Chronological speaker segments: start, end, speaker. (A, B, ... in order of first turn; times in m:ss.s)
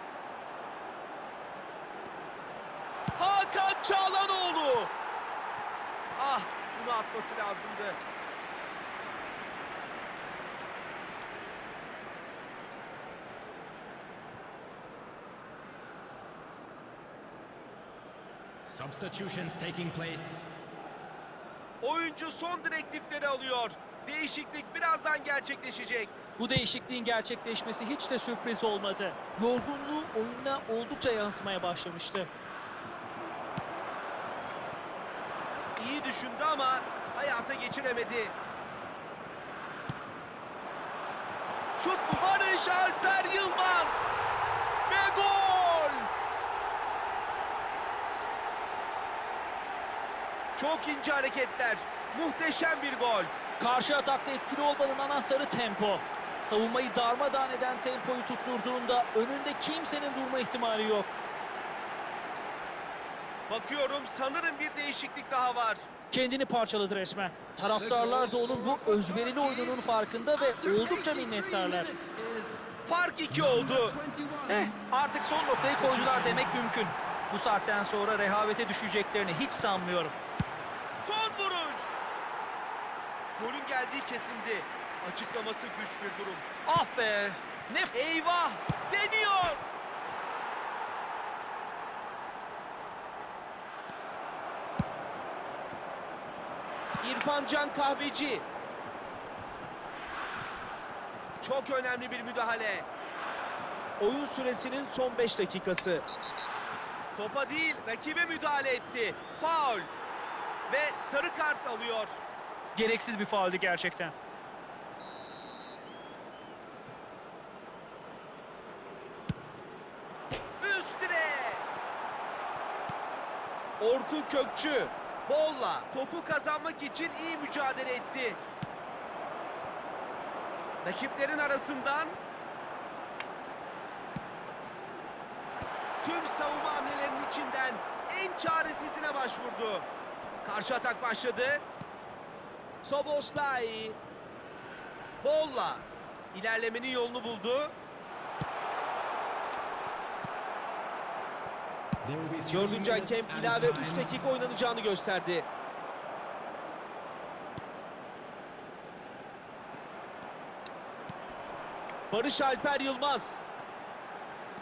0:03.2-0:04.9 A
0:06.2-0:08.0 A
0:18.6-0:20.4 B
0:21.8-0:26.2 A
0:26.4-0:32.3 C
0:35.8-0:38.3 A
0:41.8-0:44.2 A
0:44.9-0:46.1 A
0:50.6-0:53.3 A
0:53.6-1:01.1 C
1:03.5-1:05.8 A
1:06.1-1:11.9 C
1:07.8-1:09.8 B
1:10.4-1:12.6 B
1:12.8-1:14.0 A
1:13.3-1:14.7 B
1:14.5-1:20.1 C
1:15.5-1:16.7 B
1:21.0-1:22.0 A
1:23.4-1:26.4 A
1:26.7-1:27.9 C
1:27.9-1:29.6 A
1:37.0-1:38.4 A
1:41.4-1:42.9 A
1:44.0-1:46.0 A
1:47.2-1:49.9 A
1:50.7-1:52.2 A
1:52.7-1:54.1 C
2:00.6-2:01.6 A
2:03.8-2:08.4 A
2:10.8-2:12.2 A
2:16.0-2:19.8 A
2:20.4-2:21.6 A
2:22.8-2:24.0 A
2:25.2-2:27.7 A
2:32.0-2:34.2 B
2:32.5-2:35.5 A
2:42.1-2:43.5 A